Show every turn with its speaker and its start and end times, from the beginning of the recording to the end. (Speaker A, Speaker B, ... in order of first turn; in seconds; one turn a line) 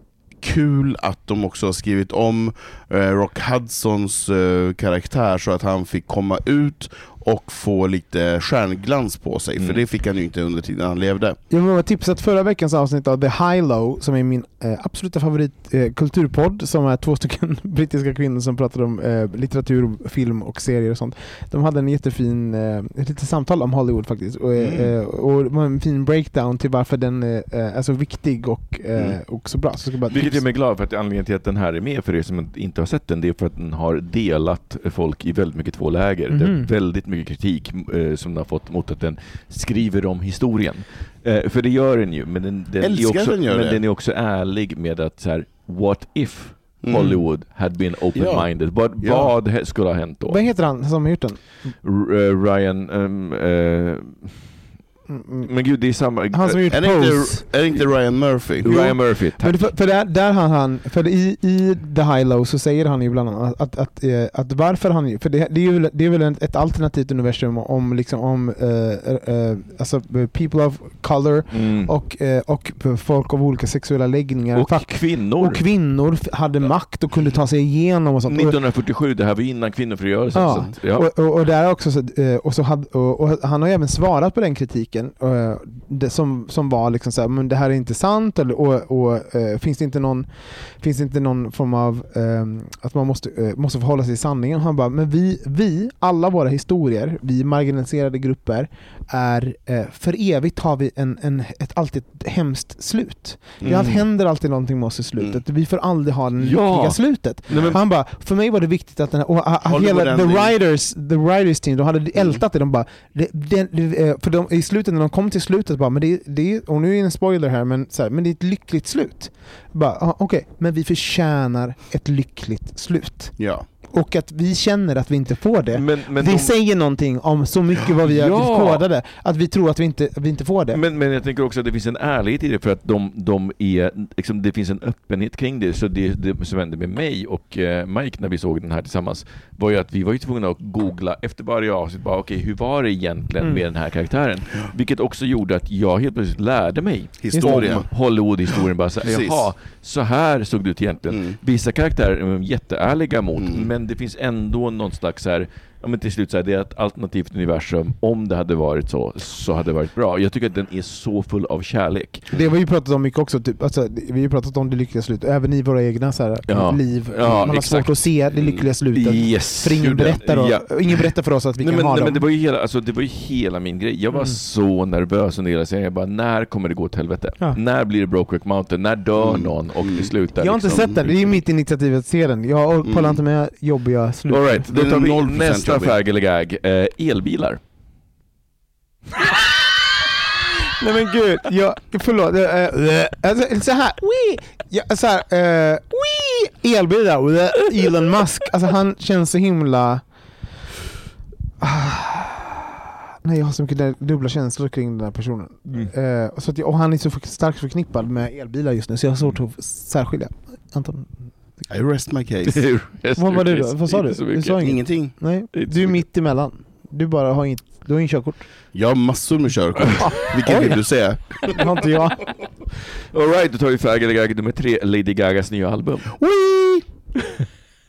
Speaker A: 0.4-11.4
Speaker B: 11.5-30.4
Speaker A: 24.6-24.9
Speaker C: 30.1-50.4
Speaker B: 36.3-36.7
Speaker A: 42.8-43.8
Speaker A: 46.8-47.2
Speaker A: 48.1-49.3
Speaker B: 50.2-51.4
Speaker C: 51.8-54.4
Speaker B: 55.1-55.5
Speaker C: 55.4-56.7
Speaker B: 56.3-57.5
Speaker A: 56.7-58.7
Speaker C: 58.6-59.6
Speaker B: 58.6-78.6
Speaker C: 71.5-71.9
Speaker C: 74.5-75.6
Speaker C: 78.2-81.1
Speaker B: 80.3-123.4
Speaker A: 103.6-104.0
Speaker C: 103.7-104.0
Speaker C: 106.4-107.8
Speaker A: 107.5-107.8
Speaker A: 109.7-110.5
Speaker A: 123.4-123.6
Speaker B: 123.9-130.8
Speaker C: 125.7-126.5
Speaker C: 128.0-128.8
Speaker C: 130.7-162.2
Speaker A: 147.2-147.9
Speaker B: 147.3-147.8
Speaker A: 148.5-149.4
Speaker A: 153.4-153.7
Speaker B: 162.3-172.2
Speaker C: 166.5-168.0
Speaker A: 167.2-167.5
Speaker C: 168.9-171.1
Speaker C: 171.6-181.3
Speaker A: 179.2-180.1
Speaker B: 180.4-184.6
Speaker A: 182.8-183.2
Speaker C: 184.3-187.6
Speaker A: 184.7-186.0
Speaker B: 190.6-200.0
Speaker B: 201.6-211.1
Speaker A: 211.7-212.7
Speaker C: 212.4-214.6
Speaker B: 213.2-218.4
Speaker A: 214.6-215.1
Speaker C: 215.5-216.0
Speaker A: 218.7-221.6
Speaker B: 220.0-220.8
Speaker B: 221.4-222.3
Speaker C: 223.1-226.1
Speaker B: 226.2-226.6